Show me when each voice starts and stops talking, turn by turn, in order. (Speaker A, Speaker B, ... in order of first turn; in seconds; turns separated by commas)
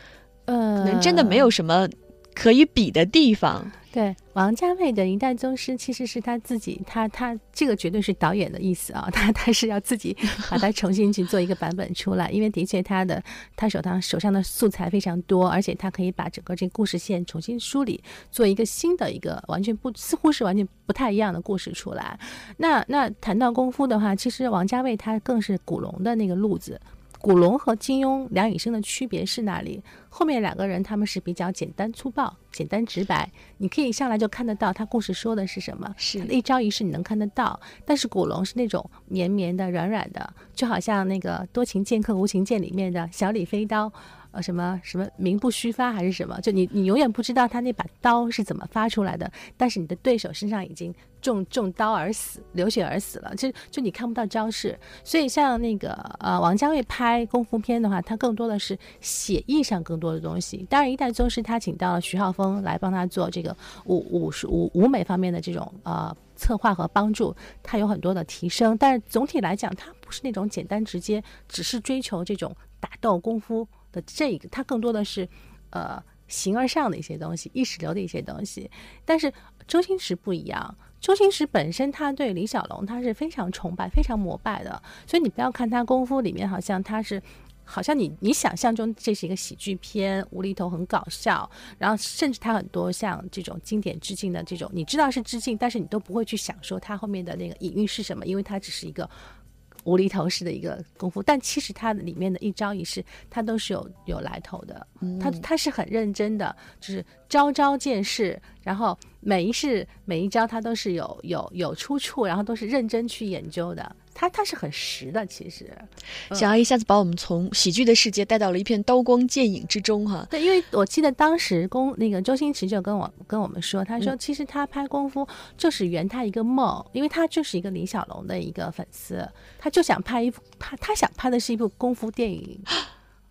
Speaker A: 0.5-1.5, Speaker B: 0.8-3.7, Speaker A: 3.9-99.1, Speaker B: 36.0-36.3, Speaker A: 99.8-116.5, Speaker B: 105.0-105.5, Speaker B: 116.3-120.3, Speaker A: 120.3-132.7